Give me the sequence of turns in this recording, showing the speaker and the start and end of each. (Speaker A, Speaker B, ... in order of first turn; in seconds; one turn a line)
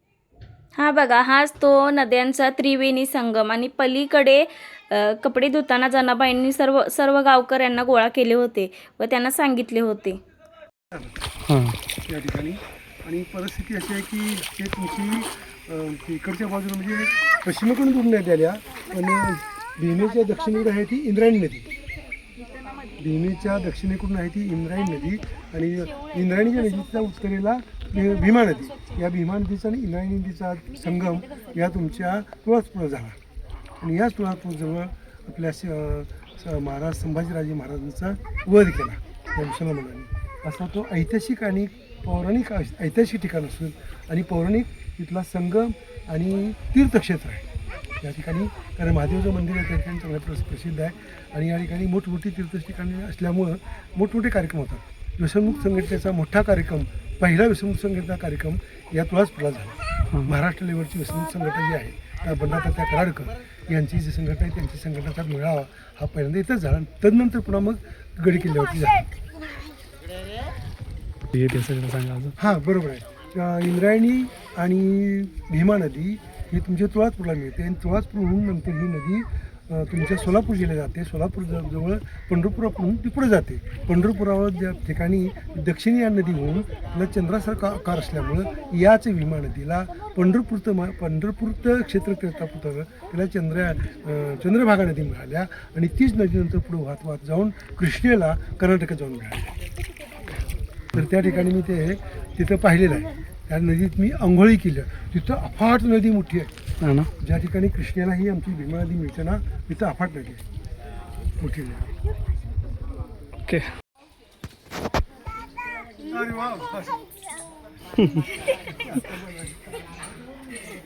Speaker A: 0.8-10.2
Speaker B: 11.5-11.8
Speaker C: 12.1-21.7
Speaker C: 22.9-33.2
Speaker C: 33.8-47.5
Speaker C: 48.0-69.1
Speaker B: 71.3-72.3
Speaker C: 72.4-99.5
Speaker C: 100.9-106.5
Speaker B: 106.8-107.1
Speaker C: 107.2-110.4
Speaker C: 111.4-111.9
Speaker C: 116.1-117.0
Speaker B: 118.0-118.3
Speaker C: 118.7-119.6